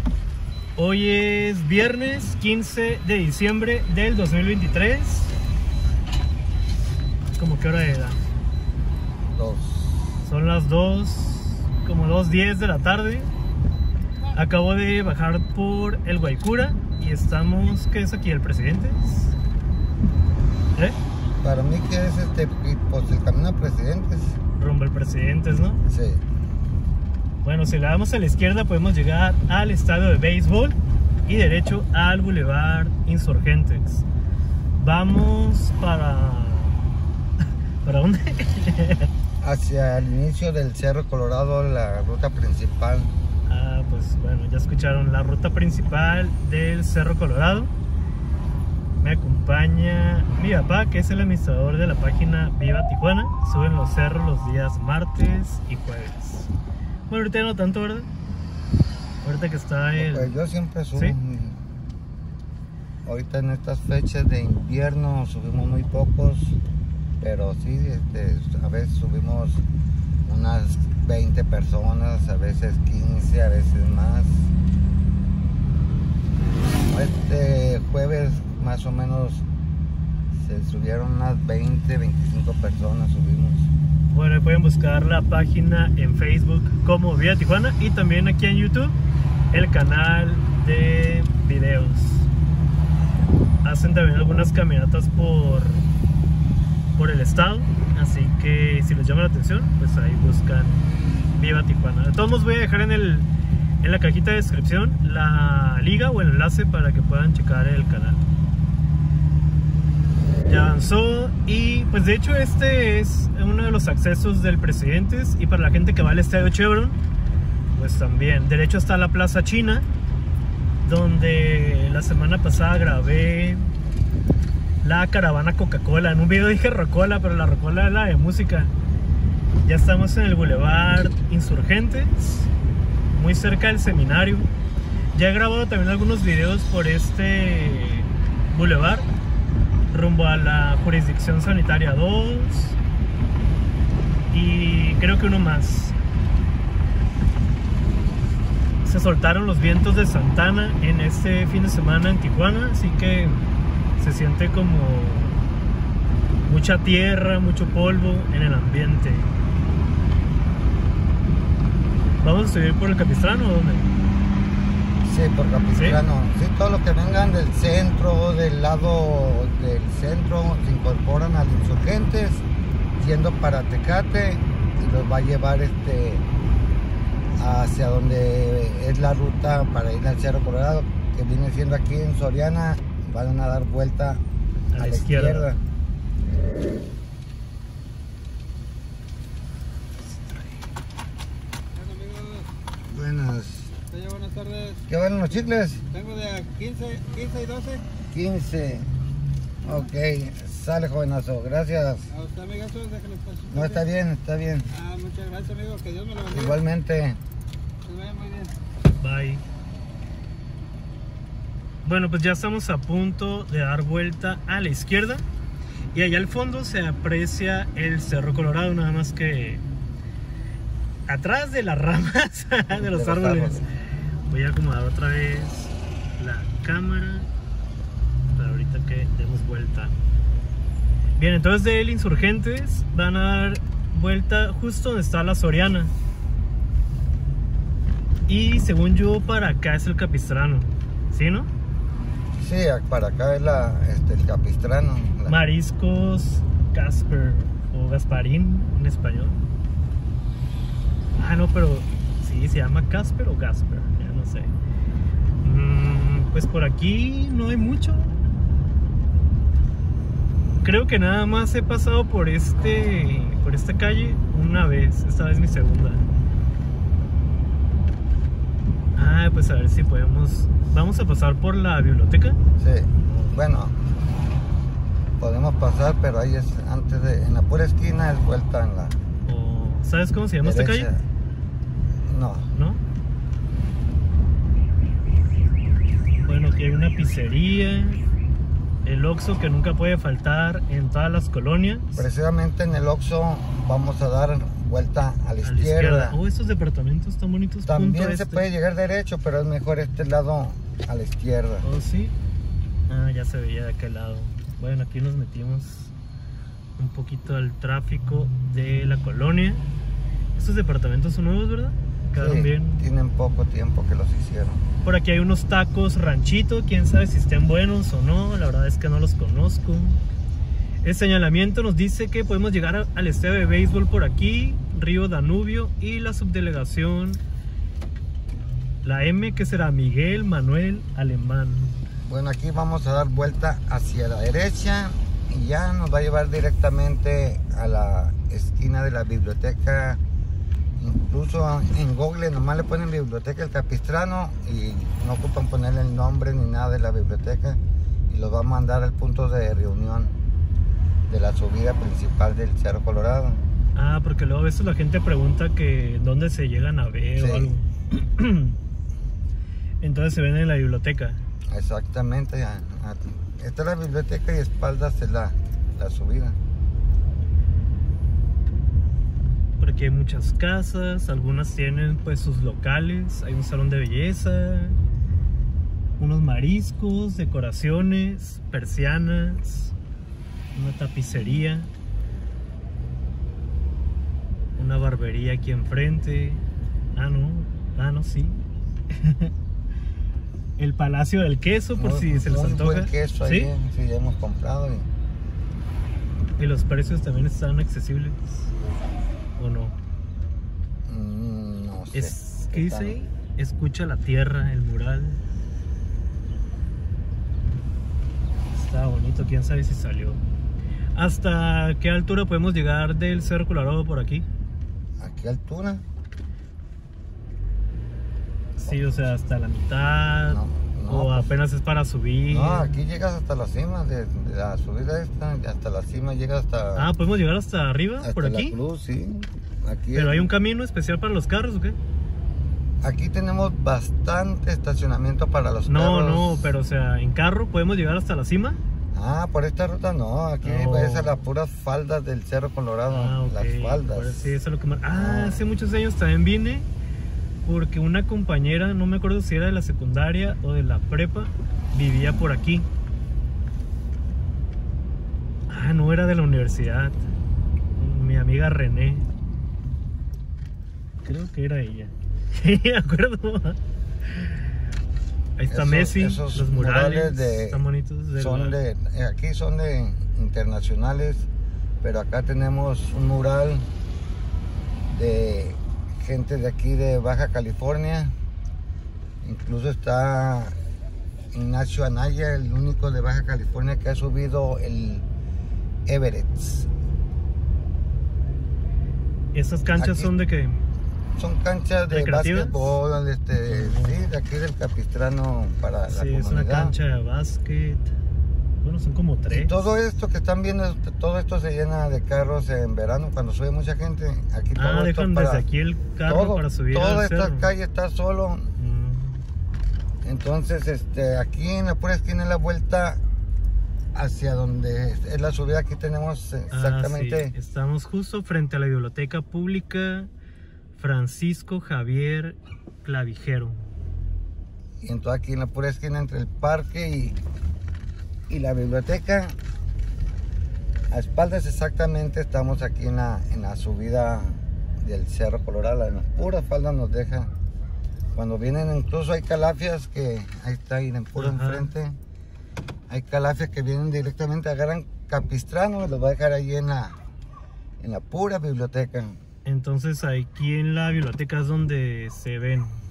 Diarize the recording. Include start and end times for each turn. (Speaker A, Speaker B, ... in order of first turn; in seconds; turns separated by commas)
Speaker A: 0.8-5.3, Speaker A: 7.4-8.2, Speaker B: 9.3-10.2, Speaker A: 10.2-13.3, Speaker A: 14.3-19.3, Speaker B: 21.4-24.4, Speaker A: 24.6-25.8, Speaker B: 25.9-26.2, Speaker A: 27.4-34.1, Speaker A: 34.8-36.8, Speaker A: 37.8-39.1, Speaker B: 39.4-43.1, Speaker A: 43.5-47.7, Speaker A: 49.0-56.5, Speaker A: 57.1-58.1, Speaker A: 59.2-60.4, Speaker B: 60.0-61.7, Speaker B: 63.0-66.6, Speaker B: 67.2-69.6, Speaker B: 70.3-74.5, Speaker B: 76.8-79.5, Speaker B: 80.3-83.7, Speaker A: 84.1-89.0, Speaker A: 89.5-92.3, Speaker A: 93.6-95.9, Speaker A: 97.0-103.3, Speaker A: 103.8-108.3, Speaker A: 110.4-117.0, Speaker A: 117.7-119.9, Speaker A: 120.8-123.7, Speaker A: 124.8-128.7, Speaker A: 129.6-132.5, Speaker A: 133.1-134.5, Speaker A: 135.1-139.1, Speaker A: 139.9-142.8, Speaker A: 144.3-146.0, Speaker A: 148.8-153.4, Speaker A: 154.0-155.4, Speaker A: 156.4-159.3, Speaker A: 162.2-163.9, Speaker B: 165.0-172.4, Speaker A: 165.7-166.0, Speaker B: 173.0-176.2, Speaker B: 177.4-184.2, Speaker A: 184.7-185.5, Speaker B: 184.8-185.6, Speaker C: 191.8-192.4, Speaker B: 192.8-193.8, Speaker C: 194.1-194.7, Speaker B: 194.8-195.9, Speaker C: 196.0-197.8, Speaker B: 198.1-198.9, Speaker B: 199.6-202.2, Speaker C: 202.3-203.4, Speaker B: 203.5-204.8, Speaker C: 204.9-206.2, Speaker B: 206.2-207.2, Speaker C: 207.9-208.5, Speaker A: 209.0-209.4, Speaker A: 211.8-215.2, Speaker A: 215.9-219.6, Speaker A: 221.1-223.7, Speaker B: 222.7-223.7, Speaker A: 224.3-227.3, Speaker A: 228.3-230.0, Speaker A: 231.2-235.9, Speaker A: 238.3-241.5, Speaker B: 242.4-245.4, Speaker A: 245.3-249.4, Speaker A: 251.2-254.6, Speaker A: 255.4-258.2, Speaker A: 260.6-266.1, Speaker A: 269.0-272.4, Speaker B: 272.6-273.8, Speaker A: 273.1-273.3, Speaker B: 275.2-279.0, Speaker A: 279.3-280.9, Speaker B: 280.4-281.0, Speaker B: 282.0-282.5, Speaker A: 282.5-282.8, Speaker A: 286.2-288.0, Speaker A: 288.9-292.0, Speaker B: 292.0-296.2, Speaker A: 295.4-298.5, Speaker B: 297.7-301.7, Speaker A: 301.6-302.1, Speaker A: 302.9-305.9, Speaker A: 306.8-309.6, Speaker A: 310.4-312.9, Speaker B: 312.1-314.6, Speaker A: 314.8-320.0, Speaker A: 320.8-327.2, Speaker A: 328.8-331.8, Speaker B: 332.1-340.0, Speaker B: 340.8-350.2, Speaker B: 351.1-353.4, Speaker A: 353.8-358.6, Speaker B: 357.2-357.6, Speaker A: 359.8-361.2, Speaker B: 361.5-366.4, Speaker A: 369.6-374.8, Speaker A: 376.0-379.7, Speaker A: 380.5-381.7, Speaker A: 384.6-386.4, Speaker A: 386.9-389.3, Speaker A: 390.6-393.5, Speaker B: 391.8-394.9, Speaker A: 396.4-398.4, Speaker A: 399.4-399.8, Speaker B: 400.9-403.0, Speaker A: 401.9-405.2, Speaker A: 408.5-410.2, Speaker A: 410.9-414.3, Speaker B: 415.0-415.8, Speaker B: 418.6-419.1, Speaker A: 418.6-422.8, Speaker B: 420.3-421.4, Speaker B: 422.3-426.9, Speaker A: 426.8-428.6, Speaker B: 428.0-430.3, Speaker A: 429.9-431.8, Speaker B: 432.8-436.5, Speaker A: 435.7-438.6, Speaker B: 438.9-444.4, Speaker A: 440.4-441.2, Speaker A: 442.9-446.7, Speaker B: 444.9-445.5, Speaker A: 447.4-452.7, Speaker A: 455.5-457.1, Speaker A: 457.8-459.1, Speaker A: 461.0-464.4, Speaker A: 465.4-468.6, Speaker B: 465.5-467.6, Speaker B: 468.2-471.3, Speaker B: 471.8-473.7, Speaker B: 474.9-478.1, Speaker B: 479.2-480.6, Speaker B: 481.3-485.1, Speaker B: 485.9-486.7, Speaker A: 489.3-490.6, Speaker B: 489.8-490.1, Speaker B: 491.1-496.8, Speaker A: 491.9-492.8, Speaker A: 493.5-494.0, Speaker A: 495.9-497.9, Speaker A: 498.6-499.7, Speaker B: 499.3-505.5, Speaker A: 504.6-507.5, Speaker B: 506.1-508.5, Speaker A: 508.6-509.2, Speaker B: 510.0-513.0, Speaker B: 514.0-517.4, Speaker A: 516.5-520.1, Speaker A: 520.8-523.6, Speaker B: 524.8-527.2, Speaker B: 528.3-529.4, Speaker B: 530.9-537.3, Speaker B: 538.1-542.0, Speaker A: 541.2-541.7, Speaker B: 542.9-547.0, Speaker B: 547.8-549.2, Speaker A: 549.5-552.8